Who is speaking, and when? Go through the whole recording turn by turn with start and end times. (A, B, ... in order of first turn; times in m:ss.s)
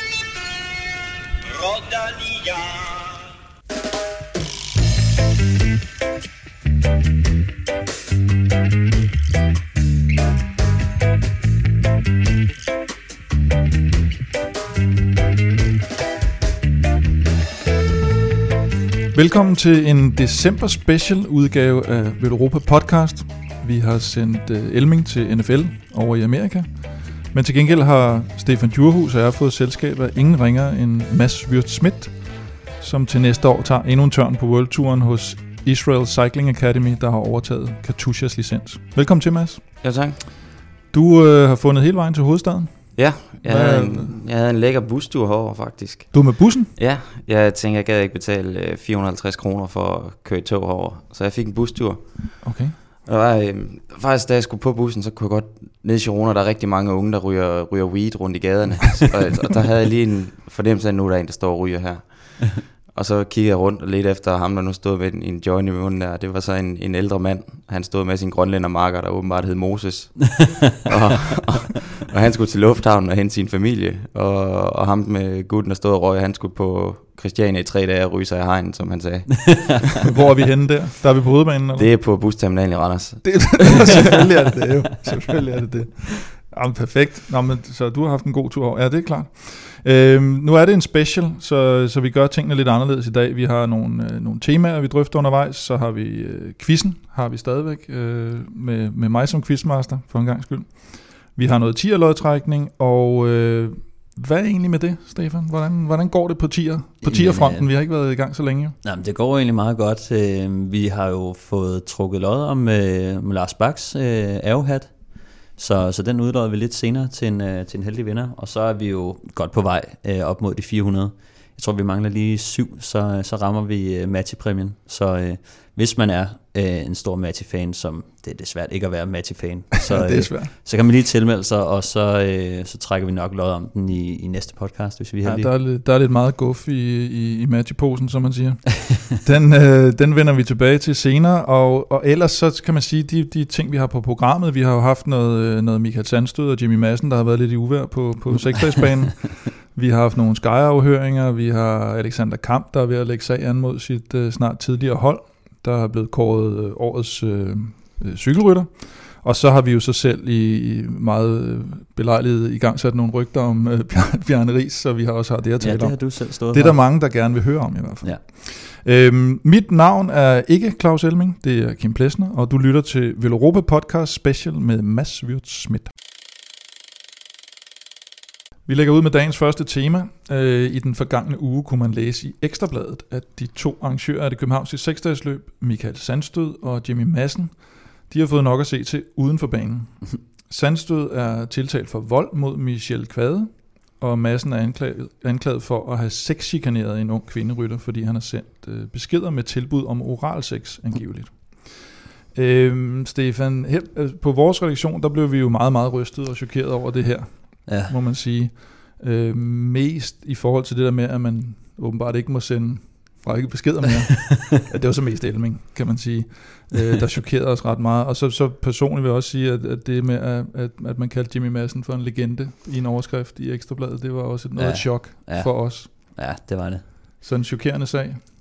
0:19.1-0:39.6 A
0:39.8-0:40.2 B
0:40.9-0:44.2 A
0:43.0-0:52.5 B
0:46.1-0:46.7 A
0:52.4-0:52.8 A
0:53.0-1:19.9 B
1:20.0-1:21.9 A
1:21.7-1:24.2 B
1:23.2-1:48.8 A
1:47.0-1:47.7 C
1:48.8-2:15.5 C
2:09.9-2:10.5 A
2:15.2-2:55.9 A
2:45.6-2:46.8 C
2:58.7-3:45.9 A
3:27.7-3:28.0 C
3:44.6-3:46.9 C
3:47.2-3:48.2 A